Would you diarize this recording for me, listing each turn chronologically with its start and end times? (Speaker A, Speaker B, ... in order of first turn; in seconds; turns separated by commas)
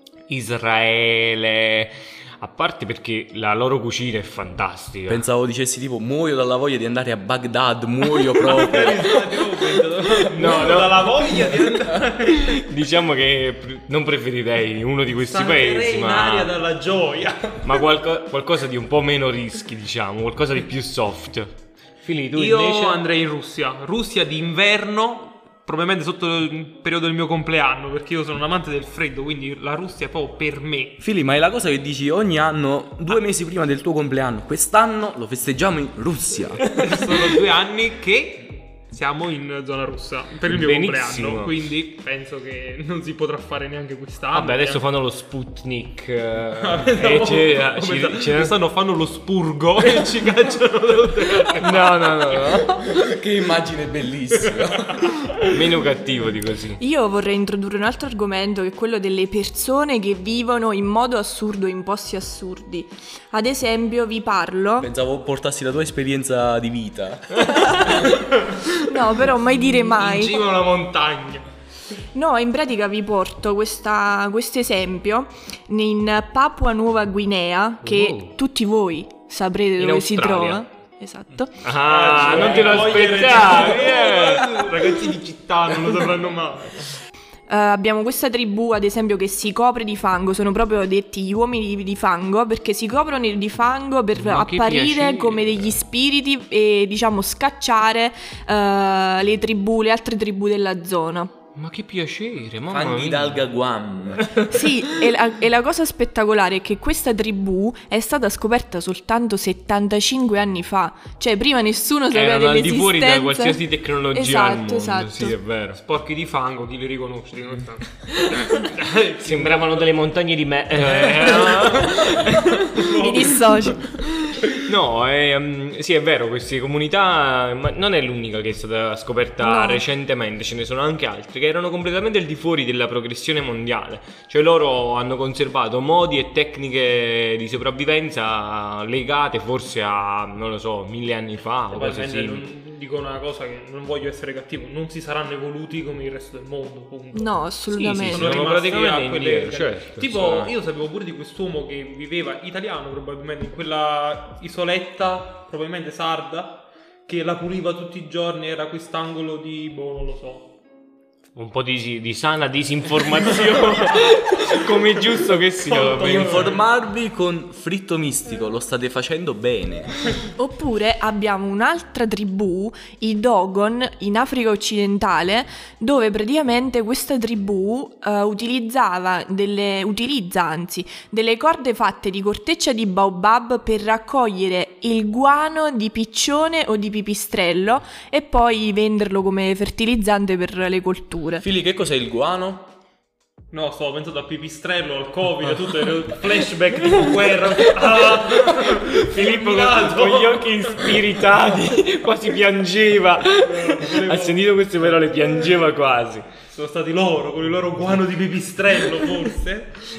Speaker A: 0.3-5.2, Speaker B: 5.1-9.3, Speaker C: 8.4-12.6, Speaker A: 10.3-16.5, Speaker C: 15.1-17.9, Speaker A: 17.6-23.0, Speaker C: 22.3-31.0, Speaker B: 31.0-36.7, Speaker C: 36.7-44.8, Speaker A: 40.5-41.5, Speaker A: 44.3-48.5, Speaker C: 46.6-52.4, Speaker A: 51.5-52.9, Speaker B: 52.8-55.1, Speaker C: 54.5-55.4, Speaker A: 55.5-56.8, Speaker D: 56.8-64.9, Speaker B: 64.8-67.8, Speaker D: 67.5-68.0, Speaker C: 68.0-68.7, Speaker D: 68.8-70.4, Speaker C: 69.6-71.5, Speaker D: 72.1-81.7, Speaker A: 77.8-78.3, Speaker A: 79.8-80.6, Speaker A: 81.6-85.1, Speaker C: 81.8-87.0, Speaker D: 87.5-101.3, Speaker A: 94.1-95.7, Speaker A: 101.5-103.5, Speaker B: 102.7-104.5, Speaker D: 104.5-115.3, Speaker A: 112.1-115.8, Speaker C: 115.8-119.9, Speaker A: 119.2-123.3, Speaker C: 120.8-123.9, Speaker D: 122.9-123.8, Speaker A: 124.3-142.4, Speaker D: 129.4-129.8, Speaker C: 141.7-147.4, Speaker D: 147.1-148.4, Speaker A: 147.7-150.5, Speaker C: 148.1-160.5, Speaker A: 161.3-166.5, Speaker C: 165.6-166.6, Speaker B: 165.8-169.9, Speaker D: 170.4-191.4, Speaker B: 191.4-192.7, Speaker C: 193.5-201.2, Speaker A: 198.1-206.2, Speaker C: 203.4-205.6, Speaker C: 206.5-209.7